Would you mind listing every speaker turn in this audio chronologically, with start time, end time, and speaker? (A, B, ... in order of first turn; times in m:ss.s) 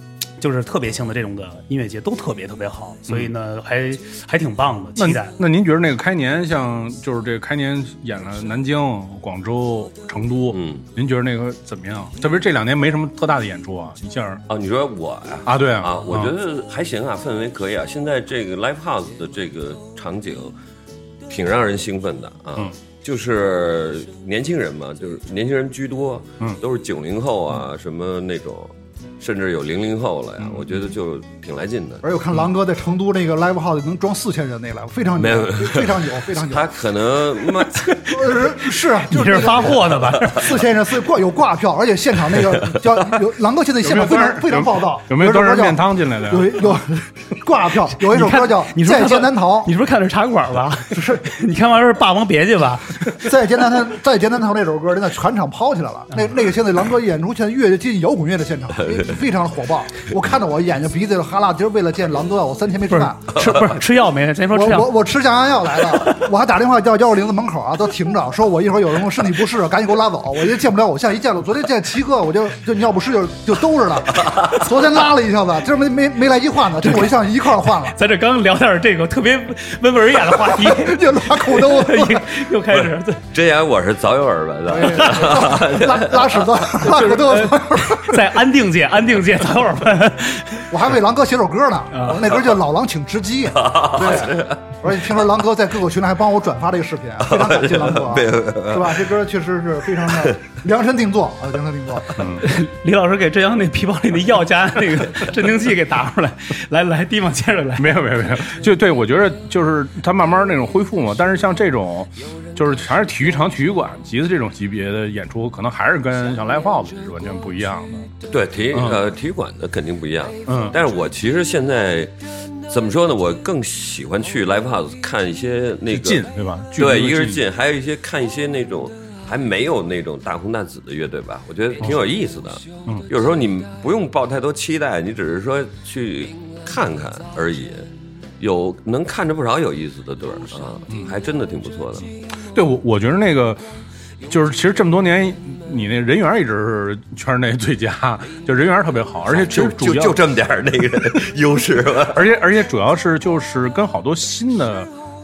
0:00.4-0:05.3 A
0:05.0-0:14.4 B
0:10.5-0:10.8 C
0:14.5-0:20.5 C
0:15.4-0:16.3 B
0:21.3-0:32.0 C
0:30.4-0:30.8 B
0:32.0-0:36.8 D
0:35.2-0:38.6 C
0:37.8-0:38.1 A
0:38.0-0:49.7 D
0:39.1-0:40.5 A
0:39.7-0:40.6 C
0:43.8-0:46.8 B
0:48.1-0:53.2 A
0:50.9-0:51.2 D
0:53.2-1:03.7 D
1:02.9-1:05.0 A
1:04.5-1:18.0 D
1:14.2-1:14.6 C
1:17.9-1:23.2 A
1:20.3-1:22.4 D
1:22.7-1:26.9 C
1:24.7-1:28.4 D
1:27.1-1:30.7 A
1:30.7-1:42.2 D
1:31.9-1:32.2 A
1:33.5-1:34.6 C
1:37.2-1:39.1 C
1:40.1-1:40.4 C
1:42.2-1:42.5 B
1:42.4-1:47.9 A
1:47.8-1:58.1 B
1:58.3-2:02.1 C
1:58.7-1:59.0 B
2:00.5-2:00.8 B
2:02.7-2:17.9 C
2:05.9-2:07.4 B
2:18.4-2:22.1 C
2:20.9-2:21.1 B
2:22.5-2:23.6 B
2:24.2-2:30.2 B
2:29.3-2:32.3 C
2:32.1-2:34.9 B